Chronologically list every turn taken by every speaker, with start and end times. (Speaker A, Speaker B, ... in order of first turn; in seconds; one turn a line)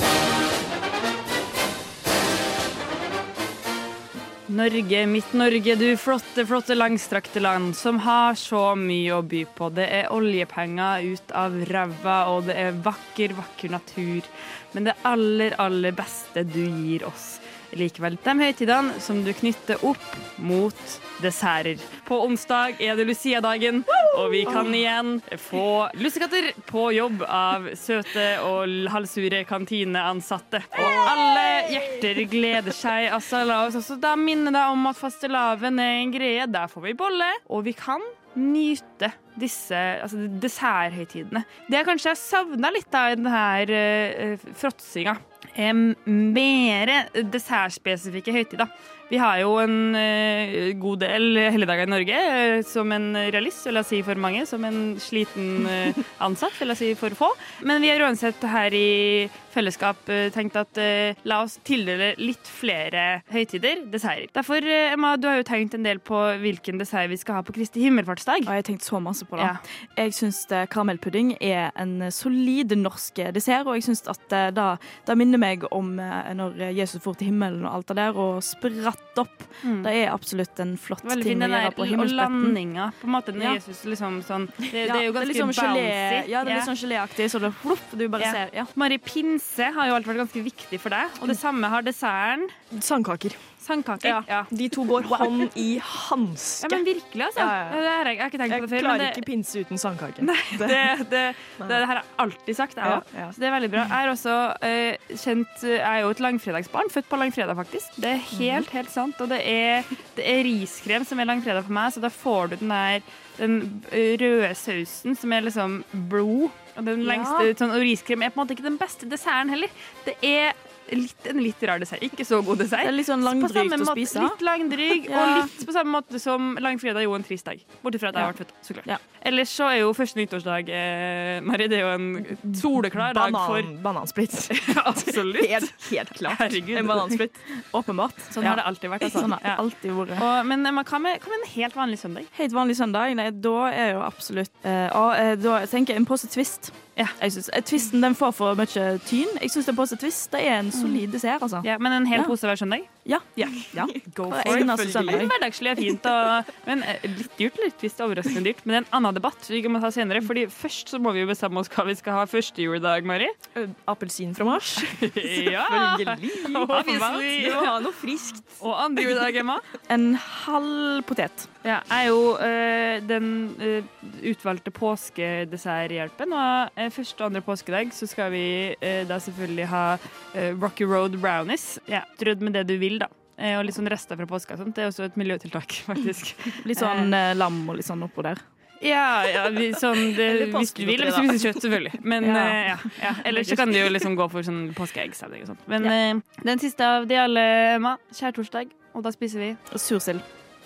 Speaker A: 4.5-68.5
Speaker B: 24.4-24.8
Speaker B: 30.8-31.1
Speaker C: 68.5-82.6
Speaker A: 79.6-79.9
Speaker A: 81.0-86.7
Speaker C: 84.8-88.7
Speaker A: 88.2-92.5
Speaker B: 92.7-93.4
Speaker A: 93.6-95.5
Speaker B: 94.0-96.8
Speaker A: 96.6-99.2
Speaker B: 97.3-97.8
Speaker B: 98.5-100.9
Speaker A: 100.2-133.7
Speaker B: 102.8-103.3
Speaker B: 108.3-108.7
Speaker C: 117.0-117.4
Speaker C: 122.8-124.4
Speaker C: 125.0-125.5
Speaker B: 132.2-137.3
Speaker A: 134.5-137.2
Speaker C: 137.7-140.2
Speaker A: 138.4-139.6
Speaker A: 140.2-142.3
Speaker C: 142.3-152.3
Speaker A: 150.7-151.0
Speaker A: 151.6-152.9
Speaker C: 153.0-155.3
Speaker A: 154.1-163.3
Speaker B: 154.3-155.3
Speaker B: 163.5-168.6
Speaker A: 164.8-167.9
Speaker A: 168.6-169.7
Speaker C: 169.9-171.5
Speaker A: 171.6-187.1
Speaker C: 186.6-188.4
Speaker A: 188.8-199.6
Speaker B: 190.0-191.4
Speaker C: 192.2-192.6
Speaker B: 193.4-193.8
Speaker C: 199.7-200.2